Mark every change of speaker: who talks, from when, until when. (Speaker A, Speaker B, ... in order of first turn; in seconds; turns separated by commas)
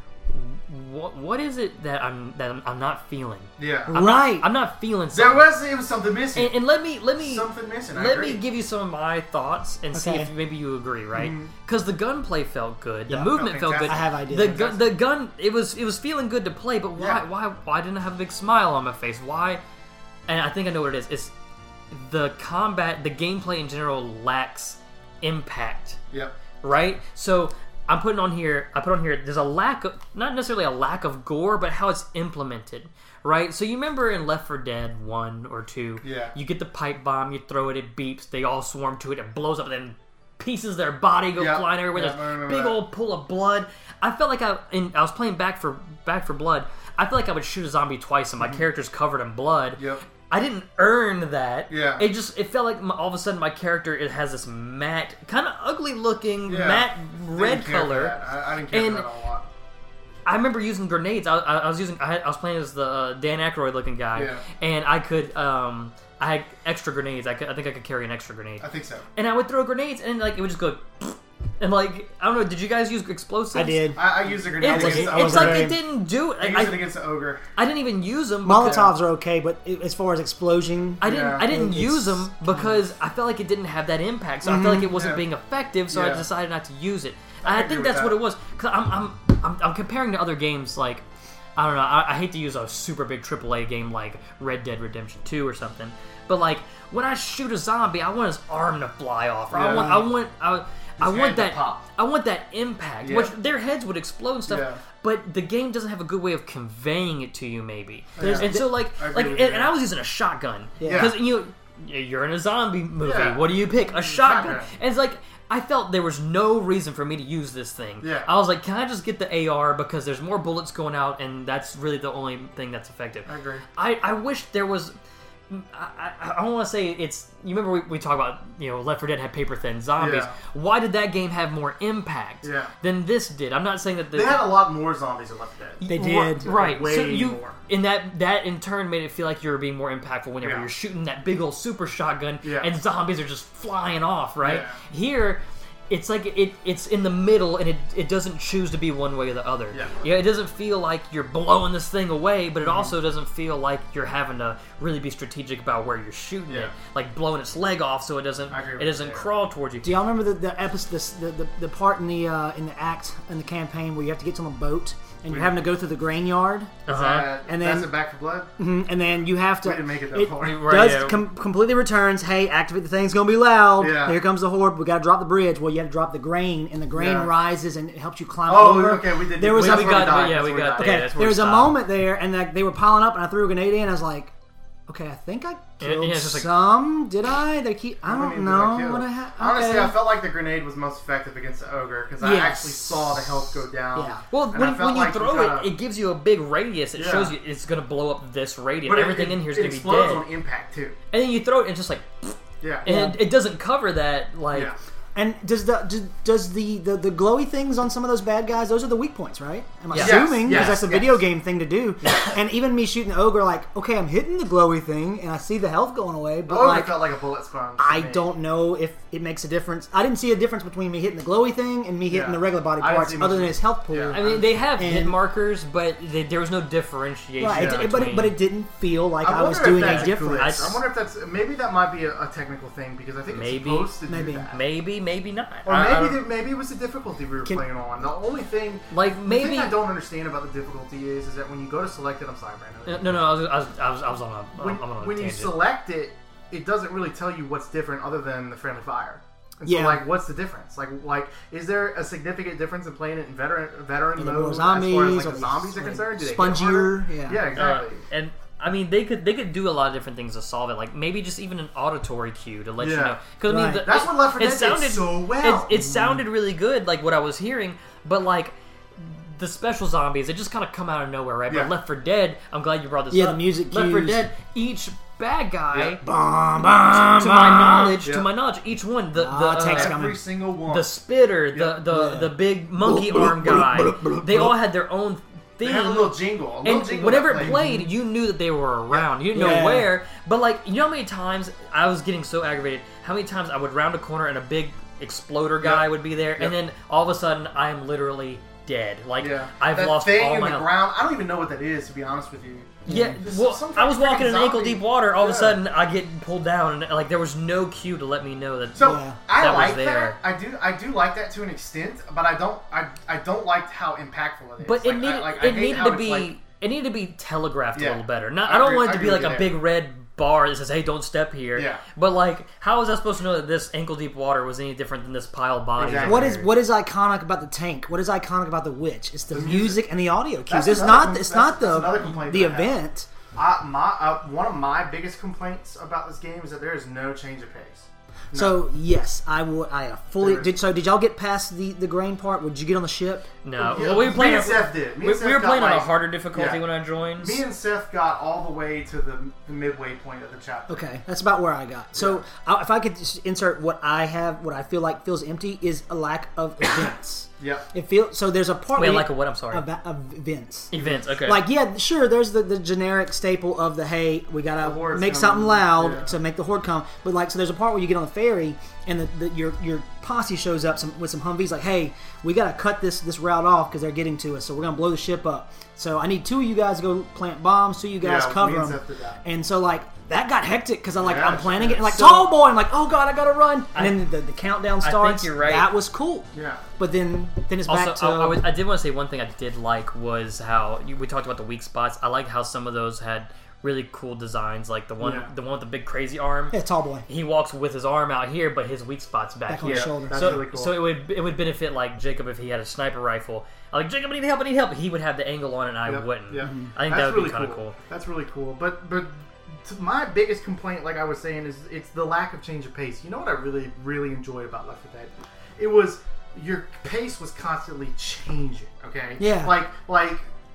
Speaker A: 0.3-5.5, Speaker B: 3.6-4.0, Speaker C: 3.9-4.5, Speaker B: 5.1-6.5, Speaker A: 6.3-19.6, Speaker B: 7.2-8.4, Speaker C: 9.9-10.3, Speaker B: 11.1-11.5, Speaker B: 13.3-14.9, Speaker C: 13.8-14.7, Speaker B: 17.0-17.2, Speaker A: 20.3-21.3, Speaker A: 21.9-26.0, Speaker A: 26.6-58.2, Speaker B: 36.0-36.4, Speaker B: 41.4-42.8, Speaker B: 49.8-50.0, Speaker B: 51.7-52.1, Speaker B: 56.5-59.5, Speaker A: 58.7-59.1, Speaker A: 60.2-74.0, Speaker B: 64.1-64.4, Speaker B: 68.6-69.0, Speaker C: 73.5-75.8, Speaker B: 73.9-75.8, Speaker A: 74.6-76.9, Speaker B: 76.4-77.4, Speaker A: 77.5-78.8, Speaker C: 78.4-82.8, Speaker B: 78.6-78.9, Speaker A: 81.0-91.0, Speaker B: 81.0-81.6, Speaker C: 84.4-84.9, Speaker B: 84.9-85.2, Speaker B: 85.9-86.2, Speaker B: 87.4-88.2, Speaker A: 91.5-124.9, Speaker B: 99.5-100.0, Speaker C: 99.7-100.0, Speaker B: 101.0-101.8, Speaker B: 103.0-103.3, Speaker B: 104.5-104.8, Speaker B: 108.1-109.7, Speaker C: 108.2-108.7, Speaker C: 110.8-111.1, Speaker B: 110.8-111.2, Speaker B: 113.0-114.7, Speaker B: 118.0-118.3, Speaker B: 123.2-123.7, Speaker A: 125.5-134.4, Speaker B: 130.0-130.3, Speaker B: 132.4-132.7, Speaker B: 134.1-135.8, Speaker A: 135.8-159.9, Speaker C: 135.8-136.5, Speaker B: 136.4-137.6, Speaker B: 140.4-140.7, Speaker B: 142.4-142.7, Speaker B: 144.4-144.8, Speaker B: 152.7-152.9, Speaker B: 158.5-159.3, Speaker C: 159.8-166.8, Speaker B: 165.3-165.5, Speaker A: 166.9-167.3, Speaker B: 166.9-168.5, Speaker C: 167.5-167.9, Speaker C: 168.6-184.3, Speaker B: 169.6-170.9, Speaker A: 170.4-171.2, Speaker B: 173.8-174.2, Speaker B: 176.9-177.3, Speaker B: 178.5-181.0, Speaker A: 179.5-181.7, Speaker C: 184.9-190.0, Speaker A: 185.8-186.6, Speaker B: 188.0-195.7, Speaker C: 192.2-193.3, Speaker C: 193.9-194.2, Speaker A: 194.3-200.2, Speaker B: 196.9-197.3, Speaker B: 198.8-200.9, Speaker A: 201.1-204.7, Speaker B: 202.6-202.8, Speaker C: 202.8-203.2, Speaker C: 205.1-217.1, Speaker A: 209.9-210.8, Speaker B: 209.9-211.2, Speaker B: 212.0-212.3, Speaker B: 216.5-218.3, Speaker C: 217.8-225.2, Speaker B: 222.1-224.5, Speaker A: 224.1-228.3, Speaker C: 227.4-230.8, Speaker B: 227.5-227.8, Speaker B: 229.2-234.6, Speaker A: 229.8-230.8, Speaker A: 233.3-233.9, Speaker C: 234.1-234.5, Speaker A: 234.5-236.2, Speaker B: 235.7-243.4, Speaker A: 238.9-239.8, Speaker A: 242.8-245.6, Speaker B: 244.6-258.0, Speaker C: 249.6-250.0, Speaker C: 254.2-257.4, Speaker A: 257.5-276.0, Speaker B: 262.8-263.2, Speaker C: 263.5-263.8, Speaker B: 263.8-265.8, Speaker C: 265.7-266.2, Speaker C: 273.1-274.3, Speaker B: 275.7-276.0, Speaker C: 276.0-278.0, Speaker A: 276.9-280.0, Speaker C: 279.1-280.2, Speaker B: 279.7-280.9, Speaker A: 280.7-300.7, Speaker B: 281.5-281.8, Speaker C: 281.9-284.6, Speaker B: 285.6-287.6, Speaker C: 287.4-287.9, Speaker C: 289.3-289.9, Speaker B: 295.6-296.5, Speaker B: 299.2-305.6, Speaker A: 302.9-310.2, Speaker C: 302.9-303.2, Speaker B: 308.7-316.3, Speaker C: 308.8-309.2, Speaker A: 314.6-326.5, Speaker B: 317.7-319.6, Speaker B: 321.5-321.8, Speaker B: 325.8-326.4, Speaker C: 326.0-333.1, Speaker B: 329.3-329.8, Speaker B: 330.4-332.8, Speaker B: 333.3-338.6, Speaker C: 338.3-343.3, Speaker B: 340.2-340.5, Speaker A: 343.4-347.4, Speaker B: 343.6-346.6, Speaker B: 347.2-350.9, Speaker C: 350.7-360.7, Speaker B: 351.9-352.2, Speaker B: 357.4-357.6, Speaker A: 358.7-359.6, Speaker A: 360.7-361.4, Speaker B: 360.8-361.0, Speaker C: 361.2-388.4, Speaker B: 364.6-366.1, Speaker B: 378.0-379.2, Speaker B: 381.0-382.1, Speaker A: 381.9-382.2, Speaker A: 383.7-384.1, Speaker A: 384.8-385.7, Speaker B: 386.3-386.6, Speaker A: 387.7-407.8, Speaker B: 395.0-395.3, Speaker C: 396.5-397.1, Speaker C: 399.5-400.4, Speaker B: 399.6-400.8, Speaker B: 405.9-409.1, Speaker C: 406.4-406.7, Speaker B: 409.6-420.3, Speaker C: 419.2-419.6